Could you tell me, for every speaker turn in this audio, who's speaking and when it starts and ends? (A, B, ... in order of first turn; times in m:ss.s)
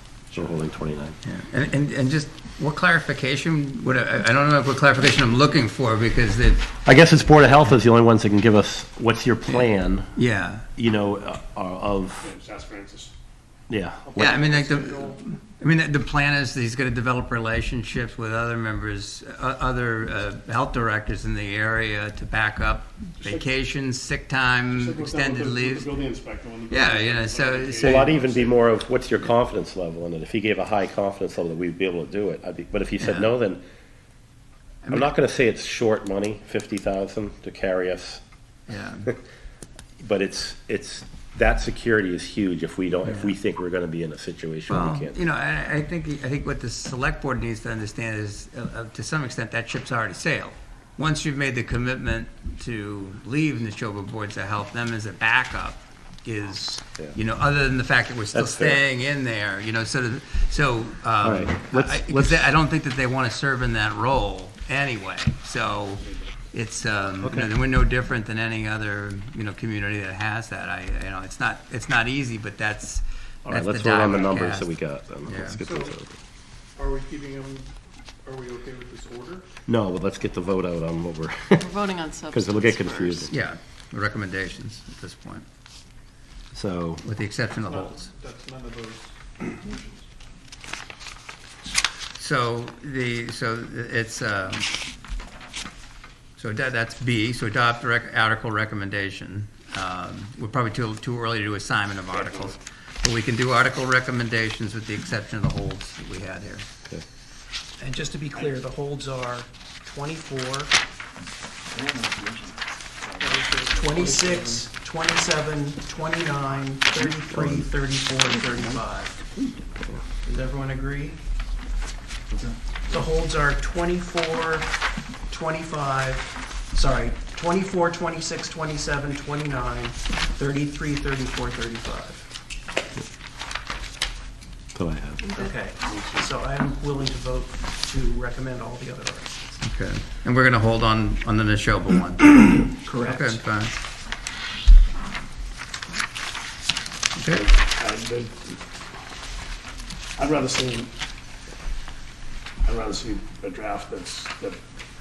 0:00.3-0:01.2 A
0:01.2-0:06.7 B
0:06.8-0:10.1 A
0:09.5-0:10.6 B
0:10.8-0:12.3 A
0:12.2-0:13.1 C
0:13.7-0:14.4 A
0:14.0-0:15.2 D
0:14.2-0:25.9 B
0:24.8-0:25.3 D
0:24.8-0:28.6 C
0:26.7-0:28.1 B
0:27.8-0:33.6 A
0:33.0-0:33.3 B
0:34.8-0:35.1 B
0:34.9-0:38.2 A
0:38.7-0:39.1 B
0:40.0-0:45.2 A
0:43.0-0:43.3 B
0:44.7-1:14.7 B
0:58.3-0:58.8 A
1:01.2-1:02.5 A
1:07.2-1:07.5 A
1:13.4-1:16.2 A
1:15.2-1:15.6 B
1:15.6-1:15.9 D
1:16.8-1:17.7 D
1:18.2-1:19.4 D
1:19.7-1:21.7 A
1:21.6-1:23.3 E
1:22.3-1:23.3 A
1:23.3-1:25.4 B
1:26.5-1:27.0 A
1:27.0-1:28.1 B
1:27.6-1:30.0 D
1:32.2-1:34.7 B
1:36.4-1:46.6 B
1:42.1-1:42.5 C
1:47.8-1:50.7 F
1:51.7-1:52.1 C
1:53.1-1:54.6 D
1:53.2-1:53.6 C
1:53.7-1:59.2 F
1:57.3-1:57.6 A
2:00.2-2:01.2 F
2:02.9-2:04.7 F
2:05.3-2:12.3 F
2:14.7-2:15.2 A
2:15.2-2:15.6 E
2:15.3-2:19.6 F
2:15.9-2:16.3 D
2:19.6-2:23.7 B
2:22.8-2:23.4 F
2:27.1-2:27.4 B
2:27.4-2:28.5 C
2:30.2-2:30.9 C
2:32.6-2:34.6 C